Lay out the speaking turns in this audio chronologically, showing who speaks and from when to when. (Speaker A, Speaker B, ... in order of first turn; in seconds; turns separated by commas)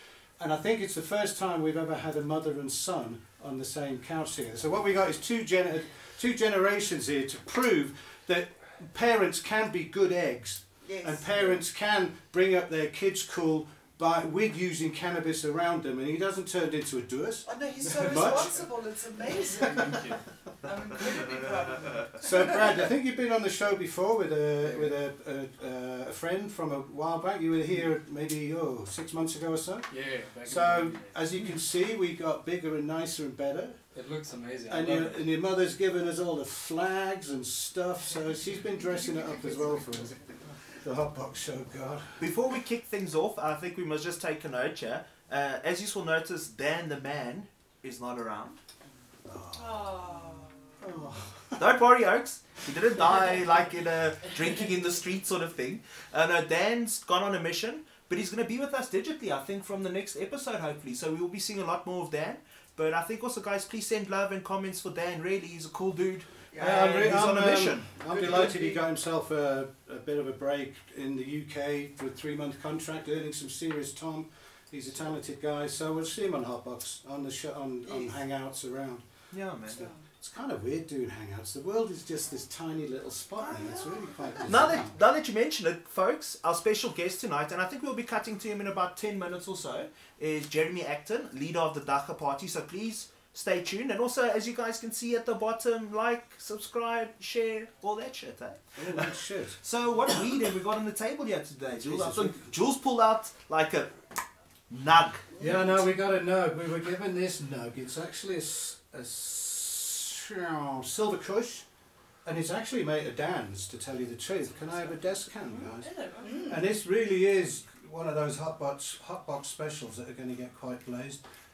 Speaker A: 0.4-18.6, Speaker B: 10.8-11.6, Speaker B: 17.4-20.0, Speaker C: 17.8-18.7, Speaker C: 19.6-20.2, Speaker B: 20.6-22.9, Speaker A: 22.2-34.1, Speaker C: 24.6-25.0, Speaker C: 29.9-31.6, Speaker C: 33.9-35.3, Speaker A: 34.7-42.3, Speaker B: 38.8-40.3, Speaker D: 42.2-48.6, Speaker A: 49.3-49.8, Speaker E: 49.5-50.5, Speaker B: 50.0-50.8, Speaker A: 50.8-51.6, Speaker D: 51.6-68.0, Speaker B: 66.5-67.3, Speaker A: 66.6-79.1, Speaker B: 68.1-68.8, Speaker B: 77.9-78.2, Speaker D: 79.3-79.9, Speaker B: 79.7-80.1, Speaker A: 79.8-85.0, Speaker B: 83.4-84.5, Speaker D: 84.5-104.1, Speaker A: 98.8-99.6, Speaker A: 101.8-102.5, Speaker D: 104.7-105.3, Speaker B: 105.3-105.9, Speaker A: 105.4-111.7, Speaker A: 112.2-115.9, Speaker E: 115.5-116.4, Speaker B: 116.2-116.7, Speaker A: 116.5-121.2